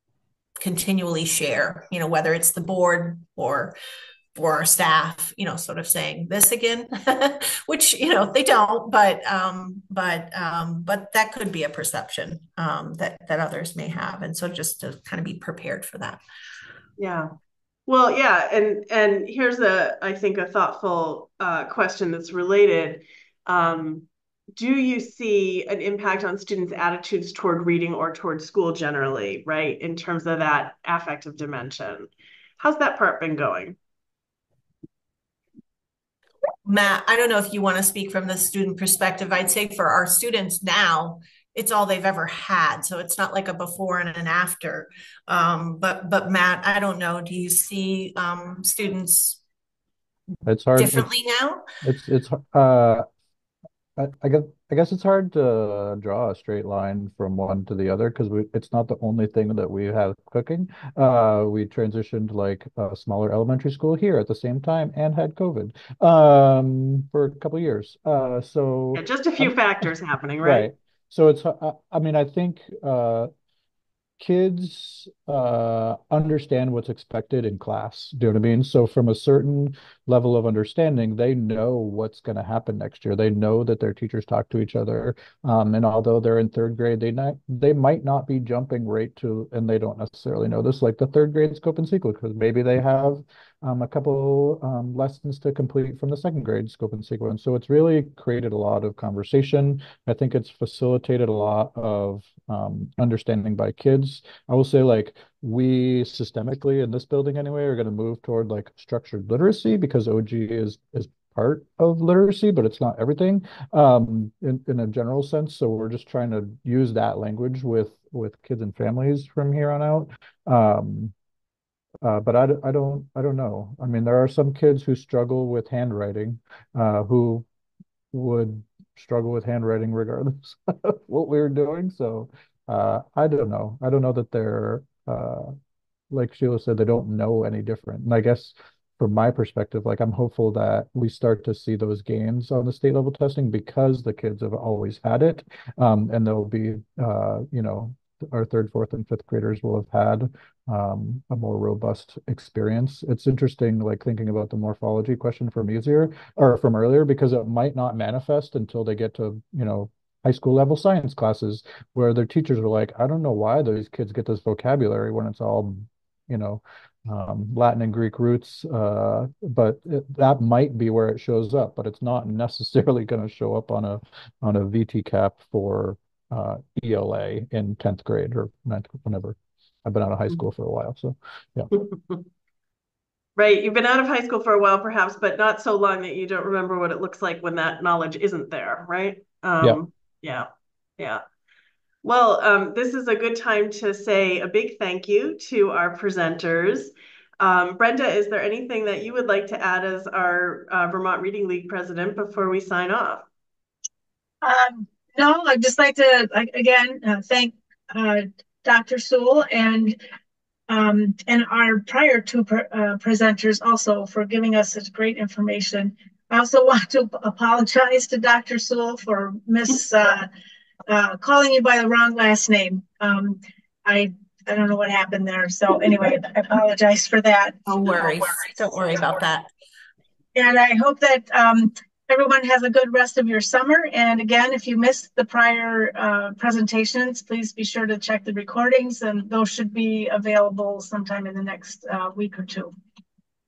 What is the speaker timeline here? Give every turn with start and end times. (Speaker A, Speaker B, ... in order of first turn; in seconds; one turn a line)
Speaker A: 0.6-3.8
Speaker A: 4.3-16.2
Speaker B: 17.0-17.3
Speaker B: 17.9-33.8
Speaker A: 36.6-49.4
Speaker C: 50.4-51.1
Speaker A: 50.8-51.6
Speaker C: 51.8-53.0
Speaker C: 54.0-69.5
Speaker B: 68.9-70.7
Speaker C: 70.4-73.3
Speaker C: 74.2-121.1
Speaker C: 122.0-127.5
Speaker C: 128.1-135.5
Speaker C: 136.1-181.7
Speaker B: 181.7-182.2
Speaker B: 183.4-191.2
Speaker B: 192.0-203.2
Speaker D: 204.4-210.0
Speaker D: 210.7-220.3
Speaker D: 220.9-227.6
Speaker A: 227.7-229.5
Speaker D: 230.3-242.7